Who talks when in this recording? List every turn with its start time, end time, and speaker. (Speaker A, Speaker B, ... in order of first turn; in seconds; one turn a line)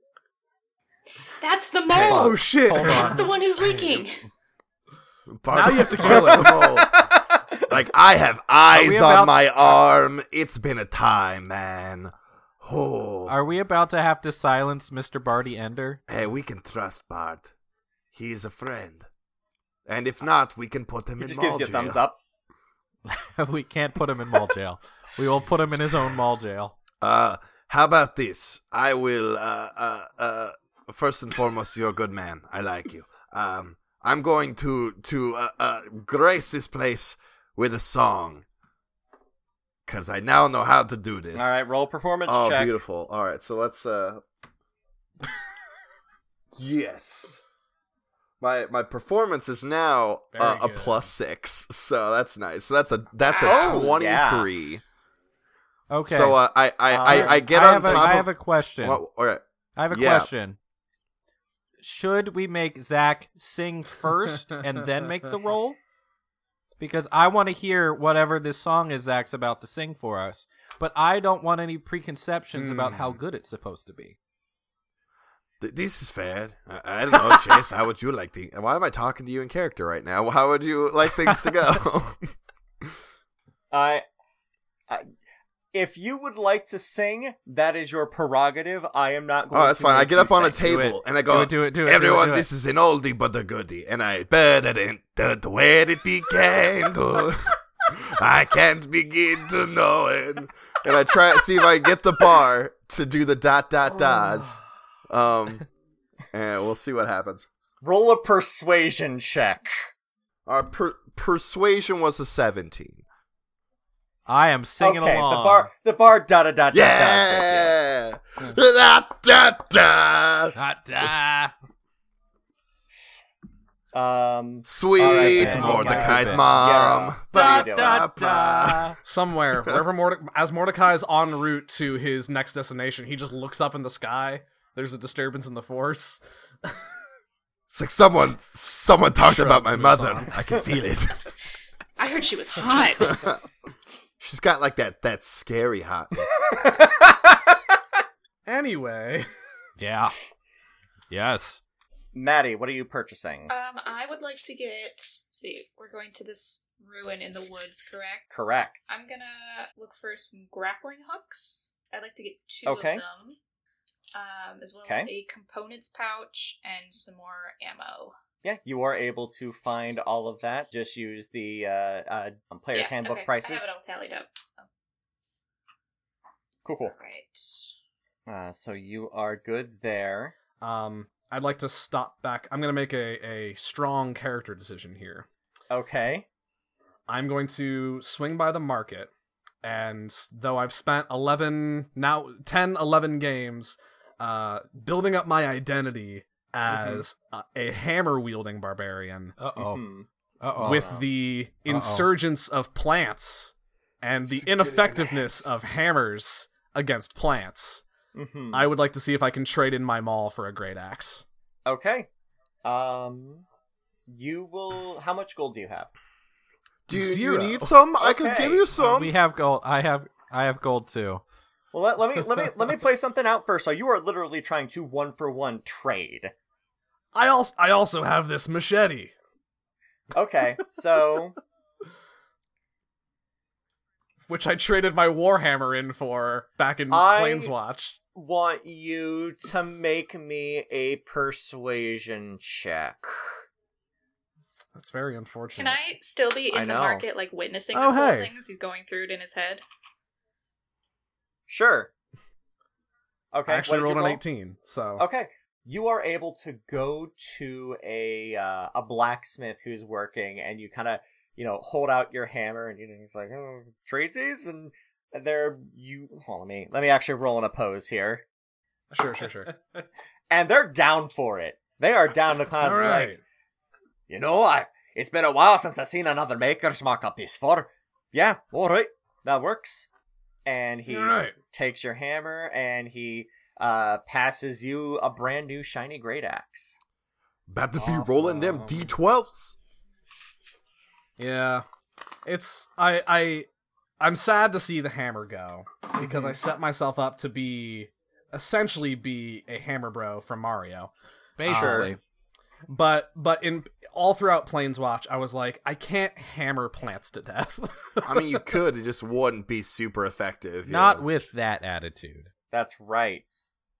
Speaker A: 1.4-4.2
Speaker B: 1.9-3.3
Speaker C: 1.9-3.3
Speaker D: 5.3-7.0
Speaker B: 5.5-6.8
Speaker E: 6.0-7.0
Speaker D: 7.7-13.4
Speaker C: 8.7-9.8
Speaker C: 13.3-16.0
Speaker D: 16.1-17.5
Speaker D: 18.1-19.1
Speaker D: 19.9-22.0
Speaker E: 21.2-22.2
Speaker C: 23.1-26.7
Speaker D: 27.0-38.5
Speaker D: 39.9-41.5
Speaker E: 41.3-42.8
Speaker D: 42.3-44.2
Speaker D: 46.5-47.4
Speaker D: 48.4-54.8
Speaker B: 50.3-51.0
Speaker E: 53.4-54.5
Speaker C: 55.9-56.4
Speaker D: 56.0-60.3
Speaker E: 56.9-58.1
Speaker C: 57.0-59.0
Speaker C: 59.8-60.6
Speaker C: 61.8-65.8
Speaker C: 66.8-74.2
Speaker B: 72.5-73.2
Speaker D: 75.6-82.3
Speaker E: 83.7-84.0
Speaker E: 85.7-90.6
Speaker D: 89.5-105.6
Speaker C: 90.6-92.5
Speaker D: 106.3-107.5
Speaker E: 107.8-109.8
Speaker D: 110.5-113.0
Speaker C: 114.3-115.7
Speaker E: 114.8-117.8
Speaker D: 116.7-120.5
Speaker C: 120.5-121.5
Speaker E: 123.9-128.0
Speaker D: 124.7-128.9
Speaker C: 125.0-126.5
Speaker B: 125.4-125.9
Speaker C: 127.3-129.0
Speaker B: 129.0-136.7
Speaker D: 137.7-141.2
Speaker B: 139.2-140.6
Speaker A: 142.0-143.3
Speaker D: 143.1-143.4
Speaker D: 144.2-146.3
Speaker B: 146.5-147.2
Speaker B: 148.4-149.3
Speaker C: 149.8-150.1
Speaker C: 151.1-151.6
Speaker E: 152.1-153.5
Speaker A: 153.5-158.2
Speaker E: 158.3-158.9
Speaker A: 158.9-163.4
Speaker E: 162.6-163.0
Speaker A: 164.1-168.2
Speaker E: 164.9-165.1
Speaker E: 168.4-173.7
Speaker A: 172.7-174.7
Speaker E: 176.7-176.9
Speaker A: 176.9-177.8
Speaker E: 178.3-180.3
Speaker B: 180.6-185.3
Speaker E: 185.7-186.3
Speaker B: 187.1-189.1
Speaker B: 189.6-199.4
Speaker E: 196.7-197.0
Speaker C: 199.4-199.8
Speaker E: 199.6-201.1
Speaker C: 200.4-200.9
Speaker B: 200.6-207.8
Speaker C: 201.7-202.1
Speaker D: 204.3-205.6
Speaker E: 208.1-208.7
Speaker B: 208.5-211.2
Speaker E: 211.7-212.1
Speaker E: 212.6-213.4
Speaker E: 214.1-215.9
Speaker D: 216.9-219.1
Speaker B: 216.9-217.8
Speaker E: 218.0-218.7
Speaker C: 218.8-221.2
Speaker E: 221.7-226.3
Speaker B: 227.1-229.1
Speaker E: 230.1-231.4
Speaker B: 234.3-238.0
Speaker E: 236.9-237.5
Speaker E: 238.2-243.4
Speaker B: 244.7-245.8
Speaker A: 245.6-249.6
Speaker E: 246.5-247.1
Speaker B: 247.7-248.3
Speaker E: 251.5-251.9
Speaker E: 253.3-254.2
Speaker B: 253.5-255.1
Speaker E: 255.0-268.2
Speaker B: 268.9-269.5
Speaker E: 270.3-273.2
Speaker B: 272.6-273.2
Speaker E: 274.1-279.9
Speaker E: 280.4-286.8
Speaker B: 280.9-281.4
Speaker D: 287.5-289.6
Speaker B: 287.8-288.9
Speaker B: 291.2-291.7
Speaker B: 292.2-293.5
Speaker B: 294.0-300.9
Speaker E: 296.0-296.3
Speaker C: 301.4-302.0
Speaker B: 301.4-301.9
Speaker E: 301.5-301.9
Speaker B: 302.7-308.4
Speaker D: 308.0-311.1
Speaker C: 310.7-312.3
Speaker E: 312.5-313.4